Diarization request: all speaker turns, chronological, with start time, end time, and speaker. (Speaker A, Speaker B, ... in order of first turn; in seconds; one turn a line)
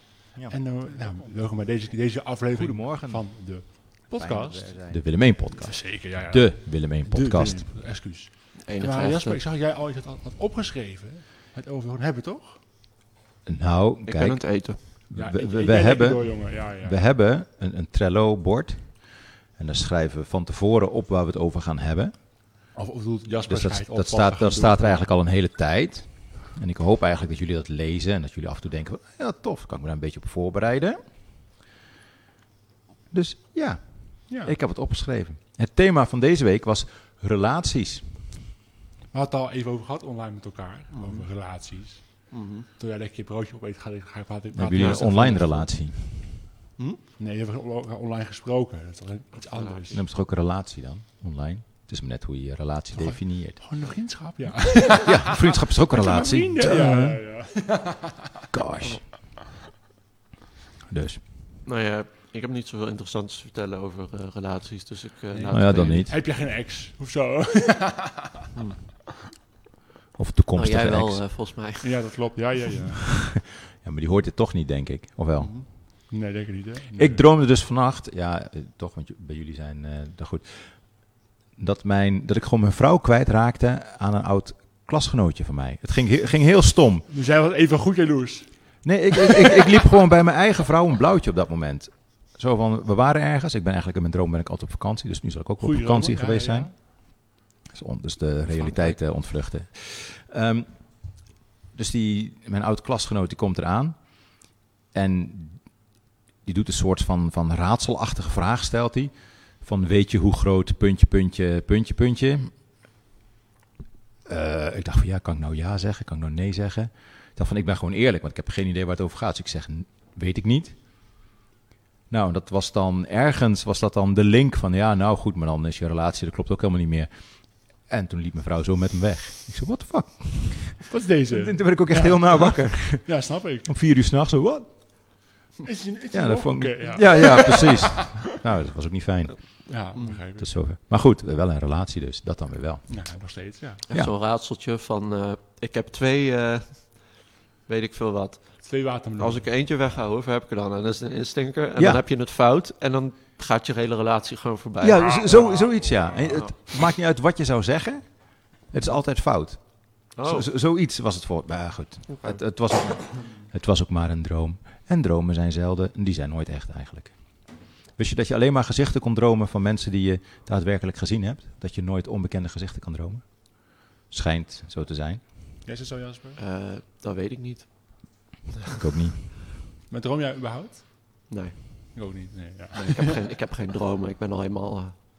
Speaker A: 0.3-1.2
Speaker B: 0.5-12.6
Speaker A: 2.5-7.7
Speaker C: 8.6-9.4
Speaker A: 13.4-22.7
Speaker C: 14.1-14.8
Speaker B: 15.1-17.0
Speaker B: 22.7-25.0
Speaker A: 23.5-31.0
Speaker A: 33.1-38.1
Speaker B: 34.3-34.6
Speaker B: 39.1-45.7
Speaker C: 40.9-41.3
Speaker C: 42.3-42.7
Speaker A: 44.5-46.4
Speaker C: 44.8-45.5
Speaker B: 47.2-50.0
Speaker C: 49.5-49.9
Speaker A: 49.9-53.6
Speaker B: 52.9-58.2
Speaker A: 54.7-57.3
Speaker A: 58.5-59.1
Speaker A: 60.9-61.2
Speaker C: 61.6-66.1
Speaker B: 65.3-68.4
Speaker A: 65.5-66.2
Speaker A: 70.1-71.2
Speaker C: 70.5-72.3
Speaker B: 71.8-73.0
Speaker A: 73.1-75.8
Speaker C: 75.4-75.7
Speaker B: 75.7-77.2
Speaker A: 77.0-87.1
Speaker B: 87.1-88.8
Speaker A: 88.8-112.5
Speaker B: 95.6-96.8
Speaker C: 98.5-99.0
Speaker A: 114.2-121.0
Speaker A: 122.1-135.3
Speaker B: 130.8-133.7
Speaker B: 135.6-138.0
Speaker A: 136.1-139.7
Speaker B: 139.7-140.5
Speaker C: 139.9-140.2
Speaker A: 140.4-143.1
Speaker B: 142.9-143.8
Speaker C: 143.9-155.4
Speaker B: 148.6-149.5
Speaker A: 151.8-152.0
Speaker A: 154.8-175.2
Speaker B: 155.0-156.6
Speaker C: 156.2-156.6
Speaker C: 160.1-160.5
Speaker C: 162.1-162.4
Speaker B: 175.6-176.4
Speaker C: 176.4-178.4
Speaker A: 178.8-179.2
Speaker B: 179.9-181.3
Speaker C: 181.3-182.1
Speaker B: 181.9-183.1
Speaker C: 182.7-185.0